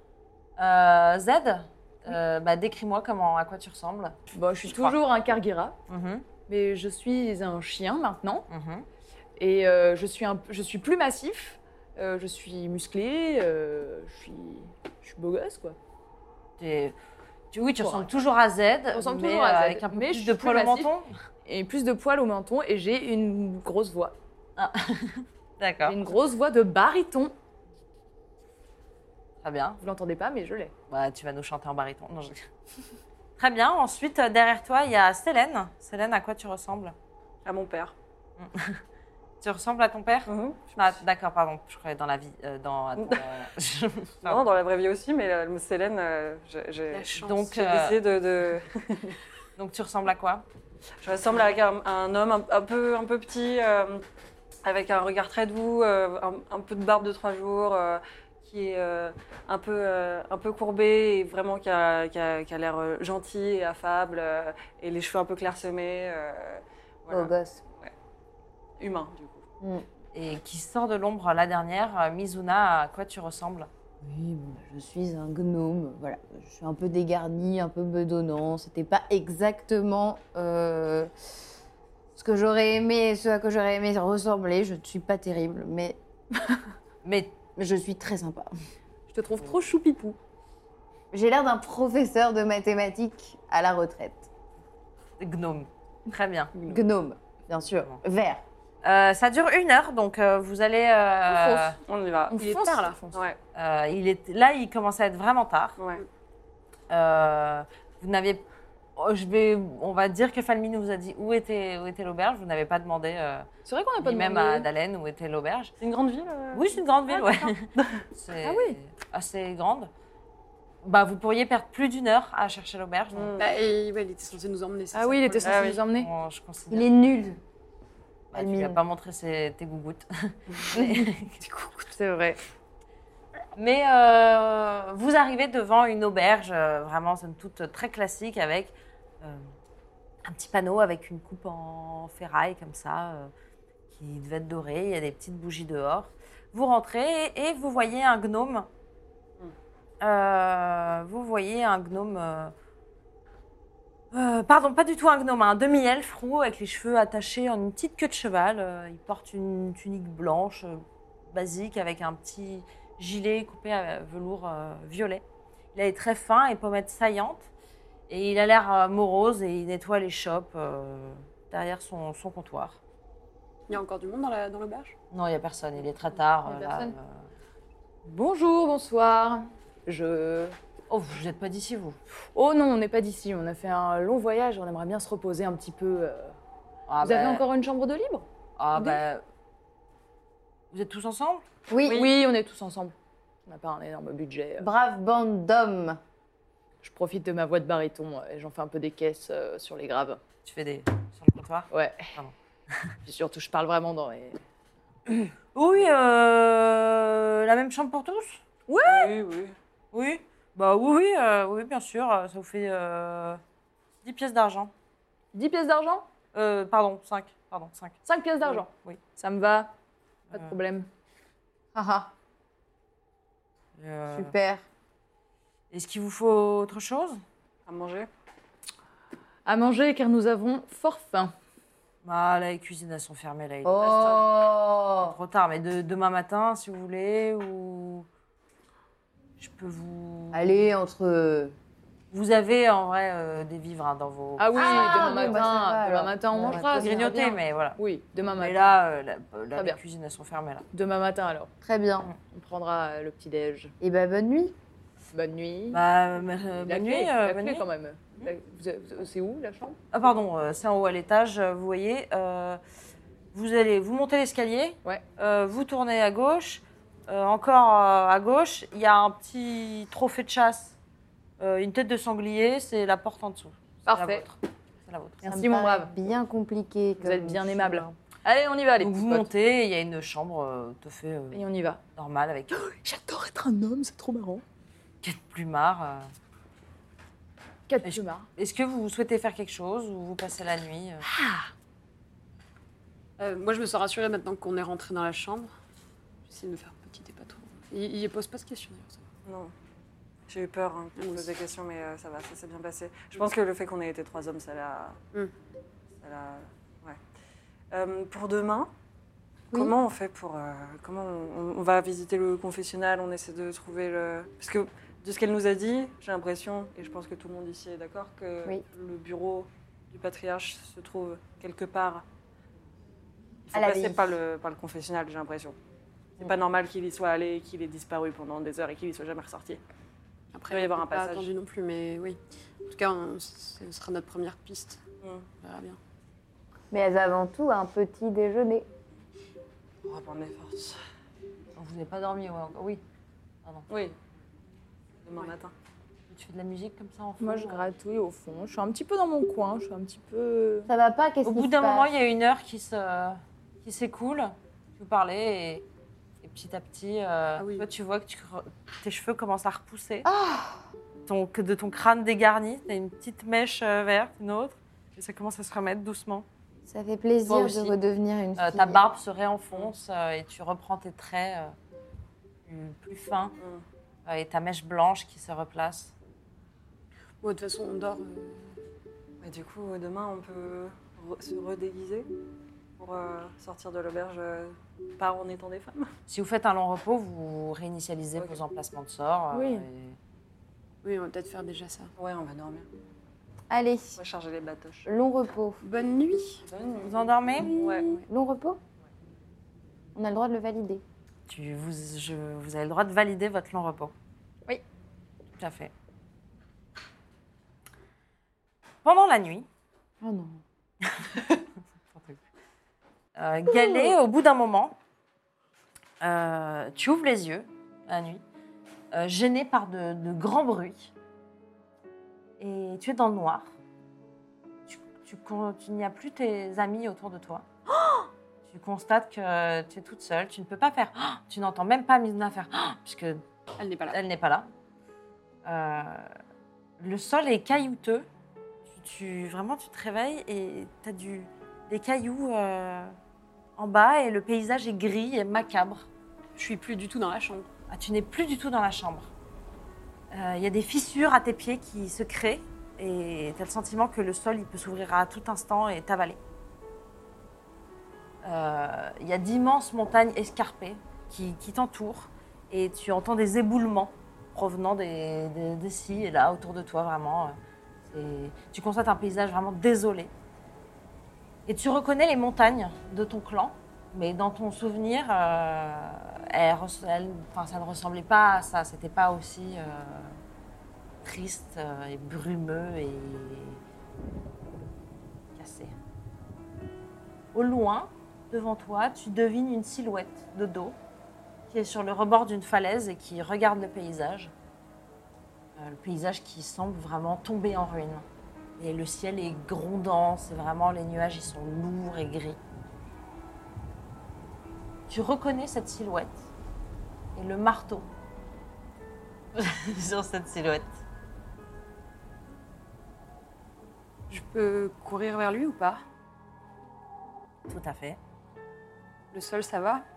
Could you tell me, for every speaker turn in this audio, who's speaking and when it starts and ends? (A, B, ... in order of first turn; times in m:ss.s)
0:00.6-0:05.0 A
0:04.3-0:05.8 B
0:05.9-0:06.3 A
0:06.4-0:08.5 B
0:08.5-0:08.9 A
0:09.4-0:15.8 B
0:16.6-0:17.0 A
0:17.5-0:21.1 A
0:17.8-0:18.1 B
0:18.9-0:20.9 B
0:21.5-0:24.2 B
0:24.6-0:26.0 A
0:25.8-0:27.3 B
0:29.4-0:29.8 A
0:29.8-0:30.7 B
0:30.9-0:32.5 A
0:33.4-0:37.0 A
0:37.4-0:37.9 C
0:38.4-0:38.8 A
0:39.4-0:44.4 A
0:40.3-0:41.0 C
0:43.0-0:43.3 C
0:44.2-0:49.2 C
0:46.9-0:47.5 D
0:47.2-0:48.0 A
0:49.6-0:50.4 A
0:51.0-0:54.0 C
0:54.6-1:07.9 C
1:07.1-1:07.6 E
1:08.8-1:09.5 C
1:10.1-1:13.7 A
1:14.0-1:21.1 E
1:22.2-1:26.0 E
1:27.0-1:27.4 A
1:27.6-1:28.5 E
1:29.1-1:30.2 B
1:31.1-1:34.3 E
1:35.2-1:36.8 A
1:36.6-1:38.4 E
1:38.8-1:41.8 A
1:41.3-1:41.7 B
1:41.9-1:42.4 C
1:42.3-1:43.2 B
1:42.4-1:43.0 D
1:43.1-1:43.4 C
1:43.6-1:45.8 A
1:45.8-1:46.0 C
1:46.9-1:48.4 A
1:49.0-1:53.5 A
1:53.6-1:54.7 B
1:54.0-1:55.8 A
1:55.8-1:58.0 C
1:56.5-1:59.9 A
1:58.4-1:58.8 B
2:00.8-2:03.4 A
2:03.1-2:03.5 C
2:03.4-2:05.8 D
2:04.9-2:06.1 B
2:05.4-2:05.8 C
2:05.9-2:07.0 A
2:06.7-2:07.4 E
2:08.3-2:11.4 A
2:08.3-2:08.8 E
2:11.9-2:12.4 B
2:13.6-2:19.5 A
2:20.2-2:23.3 A
2:23.9-2:28.7 A
2:30.0-2:32.5 A
2:34.1-2:47.5 A
2:48.1-2:52.8 A
2:53.7-2:55.0 D
2:55.1-2:57.3 A
2:56.4-2:56.9 B
2:58.0-3:00.6 B
3:00.9-3:02.0 A
3:02.3-3:06.4 B
3:06.9-3:07.4 A
3:07.0-3:09.0 B
3:08.6-3:09.2 A
3:10.7-3:11.4 A
3:11.7-3:12.1 E
3:11.8-3:12.1 C
3:11.9-3:13.0 B
3:13.5-3:14.7 B
3:14.6-3:16.0 E
3:16.8-3:20.2 B
3:20.4-3:23.0 A
3:21.7-3:22.1 B
3:23.1-3:24.4 B
3:25.5-3:28.4 A
3:28.7-3:29.2 B
3:28.8-3:29.6 C
3:29.9-3:33.4 A
3:34.0-3:34.7 A
3:35.3-3:36.0 B
3:36.3-3:38.0 A
3:38.0-3:39.7 B
3:40.3-3:40.9 B
3:41.8-3:42.1 E
3:43.8-3:44.4 A
3:44.1-3:44.6 E
3:45.7-3:47.2 A
3:47.7-3:48.1 C
3:49.5-3:51.3 B
3:52.0-3:54.3 A
3:53.6-3:55.2 E
3:55.0-3:58.1 A
3:59.4-4:00.7 A
4:00.3-4:01.6 E
4:02.1-4:05.4 A
4:04.4-4:08.7 B
4:04.5-4:07.0 E
4:06.4-4:07.8 A
4:08.4-4:10.7 A
4:10.7-4:11.5 B
4:11.6-4:12.1 E
4:12.2-4:13.8 B
4:13.8-4:14.6 E
4:15.1-4:15.8 B
4:15.7-4:17.7 A
4:16.6-4:19.8 B
4:19.9-4:22.6 A
4:23.3-4:30.8 A
4:31.4-4:35.2 A
4:33.9-4:34.2 B
4:35.2-4:37.9 E
4:35.3-4:35.9 B
4:37.0-4:39.3 B
4:38.8-4:41.4 A
4:41.3-4:41.8 B
4:42.0-4:42.6 A
4:42.5-4:44.4 B
4:45.0-4:46.1 A
4:47.7-4:48.3 B
4:47.8-4:51.1 A
4:51.1-4:51.5 B
4:53.2-4:55.5 D
4:56.3-4:59.1 D
4:59.2-4:59.5 C
5:00.3-5:05.0 C
5:01.0-5:01.3 D
5:06.0-5:07.0 C
5:07.7-5:08.7 C
5:09.5-5:22.0 C
5:23.5-5:25.6 C
5:23.5-5:24.0 E
5:26.2-5:29.6 C
5:30.3-5:34.8 D
5:30.5-5:31.3 C
5:35.0-5:35.3 C
5:35.4-5:35.8 D
5:36.7-5:38.7 E
5:39.8-5:40.8 C
5:41.6-5:42.8 A
5:43.7-5:44.0 C
5:45.0-5:45.5 C
5:46.1-5:47.7 A
5:47.2-5:50.7 B
5:50.7-5:51.9 E
5:51.2-5:55.6 A
5:56.2-6:00.1 A
5:57.4-5:57.7 D
6:00.0-6:00.6 E
6:01.1-6:06.3 A
6:06.7-6:08.8 E
6:07.3-6:07.7 A
6:08.4-6:11.6 A
6:12.5-6:13.4 A
6:14.0-6:15.9 A
6:17.2-6:18.6 D
6:19.2-6:22.1 C
6:22.8-6:25.9 C
6:26.1-6:30.0 A
6:29.3-6:29.7 B
6:30.8-6:31.9 D
6:32.0-6:32.7 C
6:33.5-6:34.0 E
6:34.0-6:34.9 C
6:34.9-6:35.6 E
6:35.6-6:36.5 D
6:36.4-6:38.0 C
6:36.8-6:37.5 A
6:37.4-6:38.6 E
6:40.0-6:40.8 E
6:41.3-6:43.9 A
6:45.4-6:45.7 A
6:48.8-6:49.5 A
6:50.0-6:50.4 E
6:50.8-6:51.3 A
6:51.9-6:52.2 A
6:53.2-6:54.8 A
6:56.0-6:58.2 A
6:58.9-7:00.9 A
7:02.4-7:03.5 A
7:04.7-7:13.2 A
7:13.6-7:14.0 D
7:13.9-7:14.5 A
7:15.4-7:16.1 A
7:16.8-7:18.1 A
7:18.7-7:23.0 A
7:23.6-7:25.9 A
7:26.4-7:27.5 D
7:27.7-7:29.1 A
7:30.1-7:36.2 A
7:38.2-7:50.1 A
7:51.5-8:00.2 A
8:01.0-8:03.6 A
8:05.4-8:05.8 A
8:07.3-8:10.8 A
8:11.5-8:14.3 A
8:15.6-8:18.1 A
8:18.6-8:22.4 A
8:24.9-8:26.3 A
8:27.2-8:27.9 A
8:29.3-8:30.8 A
8:34.1-8:35.8 D
8:37.5-8:38.0 A
8:39.1-8:39.8 D